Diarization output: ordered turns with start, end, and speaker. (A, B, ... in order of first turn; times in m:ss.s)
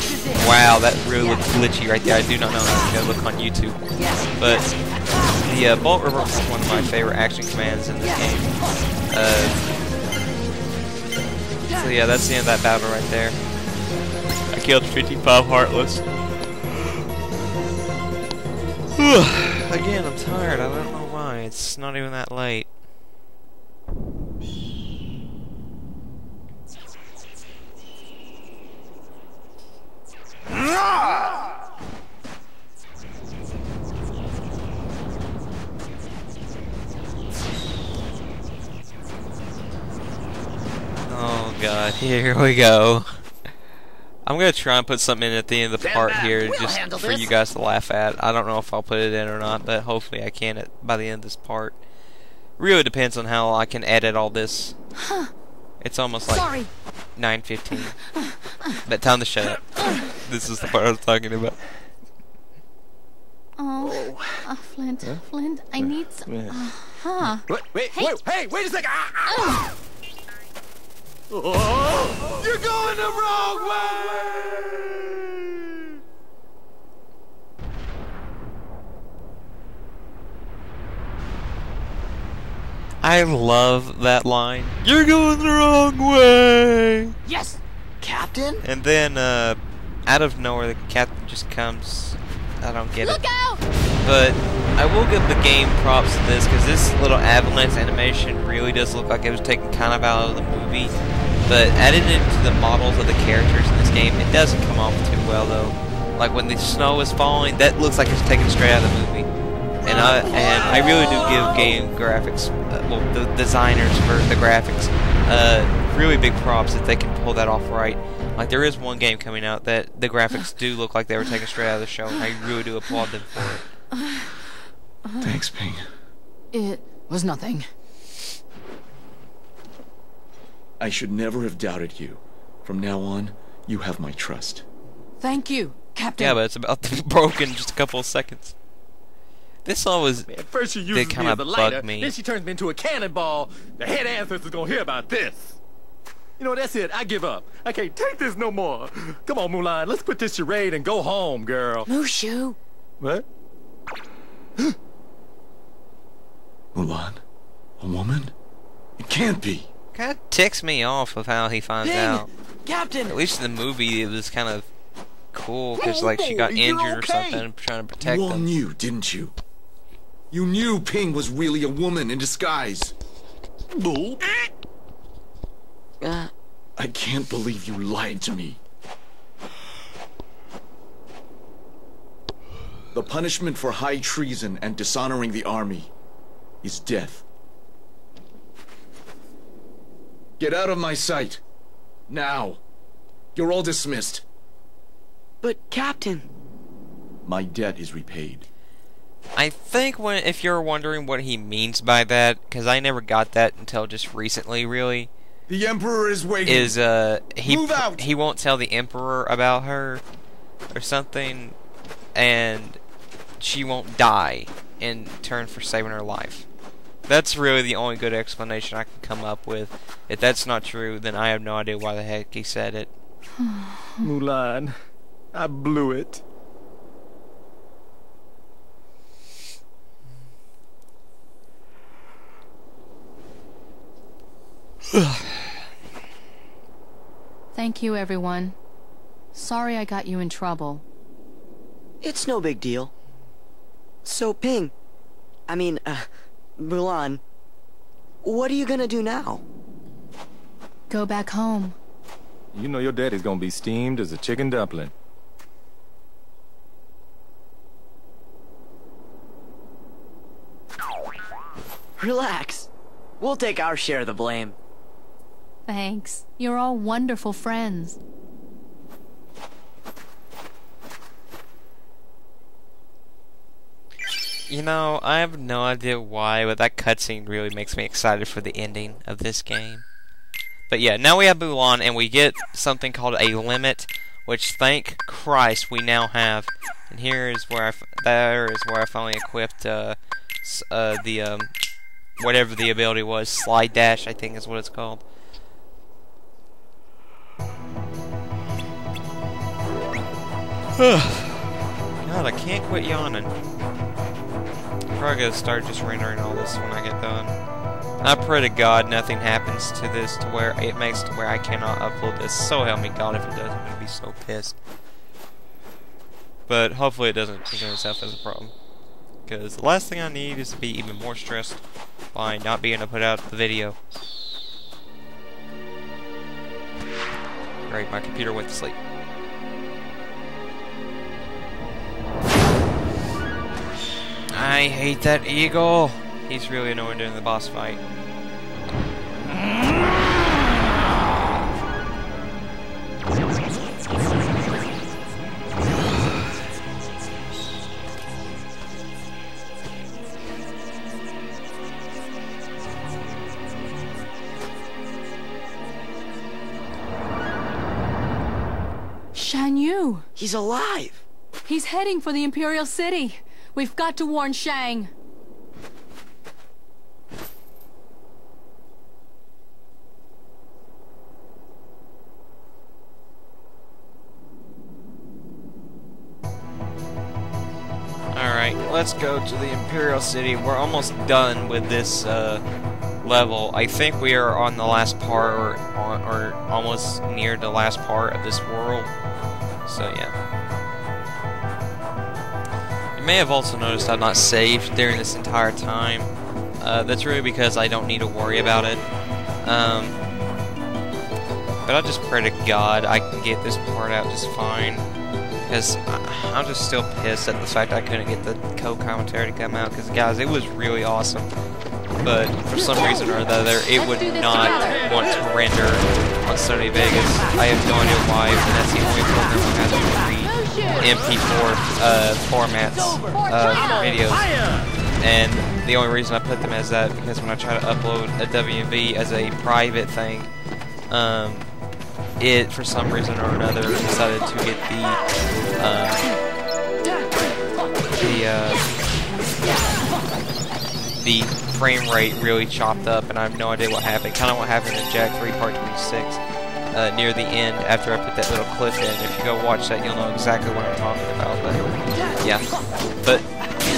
0:00.3-0:03.8 A
0:04.4-0:04.7 A
0:05.4-0:08.6 A
0:09.1-0:09.6 A
0:11.7-0:13.4 A
0:14.5-0:16.0 A
0:19.0-0:22.7 A
0:41.1-0:43.1 A
0:44.2-0:51.8 A
0:52.6-0:54.8 A
0:55.8-0:56.5 A
0:56.3-0:56.7 B
0:57.2-0:58.0 A
0:58.8-1:01.6 A
1:03.6-1:08.2 B
1:03.8-1:04.4 C
1:05.8-1:09.6 C
1:09.3-1:09.7 B
1:11.3-1:14.0 C
1:13.1-1:13.5 D
1:23.0-1:27.1 A
1:27.2-1:28.6 E
1:28.6-1:33.2 A
1:33.0-1:33.6 B
1:34.0-1:40.9 A
1:41.5-1:49.3 A
1:49.8-2:03.7 A
2:05.2-2:05.8 D
2:06.5-2:07.7 B
2:10.8-2:14.6 D
2:15.2-2:16.4 B
2:16.2-2:18.5 A
2:19.6-2:22.1 A
2:20.3-2:25.6 C
2:26.4-2:31.9 C
2:31.9-2:32.6 E
2:33.0-2:33.2 C
2:36.7-2:37.2 D
2:37.8-2:38.3 D
2:39.0-2:39.7 D
2:39.9-2:42.3 A
2:41.8-2:43.2 E
2:43.1-2:44.7 A
2:45.3-2:48.6 A
2:48.0-2:49.3 D
2:50.3-2:52.9 D
2:53.8-2:54.1 C
2:56.0-2:56.3 E
2:56.8-2:58.6 D
3:02.9-3:05.9 D
3:06.6-3:07.2 D
3:10.4-3:11.4 D
3:12.1-3:12.6 D
3:13.3-3:14.2 D
3:15.4-3:16.2 E
3:17.2-3:18.5 D
3:19.4-3:25.1 A
3:25.5-3:26.8 D
3:26.4-3:30.0 A
3:27.4-3:28.1 D
3:30.7-3:31.6 A
3:32.1-3:32.8 A
3:33.4-3:36.4 A
3:37.1-3:42.9 A
3:43.4-3:44.1 B
3:44.0-3:44.7 C
3:45.3-3:46.2 C
3:57.5-3:58.6 B
3:59.3-4:00.8 B
4:02.0-4:02.9 E
4:04.0-4:04.7 E
4:05.5-4:07.2 E
4:08.2-4:09.4 E
4:10.9-4:11.8 B
4:12.5-4:14.9 C
4:22.0-4:22.7 E
4:23.2-4:24.6 E
4:25.7-4:28.0 B
4:34.5-4:39.8 A
4:40.7-4:51.5 A
4:52.2-4:55.0 A
5:00.8-5:01.5 A
5:02.0-5:03.3 A
5:04.9-5:07.4 A
5:08.0-5:14.6 A
5:16.5-5:18.5 A
5:19.3-5:21.6 A
5:22.1-5:23.8 A
5:27.6-5:28.8 A
5:34.3-5:37.8 A
5:59.1-6:00.0 B
6:00.2-6:01.0 E
6:01.4-6:04.9 B
6:18.1-6:22.4 A
6:23.0-6:28.9 A
6:29.6-6:30.2 A
6:33.0-6:38.8 A
6:39.4-6:40.0 A
6:41.6-6:44.8 A
6:45.4-6:51.3 A
6:52.0-7:04.4 A
6:53.9-6:54.8 B
7:03.4-7:03.8 B
7:05.0-7:10.3 A
7:10.9-7:11.5 A
7:12.2-7:15.0 A
7:15.6-7:16.1 A
7:18.0-7:18.7 A
7:21.0-7:26.2 A
7:26.7-7:31.6 A
7:32.2-7:32.4 A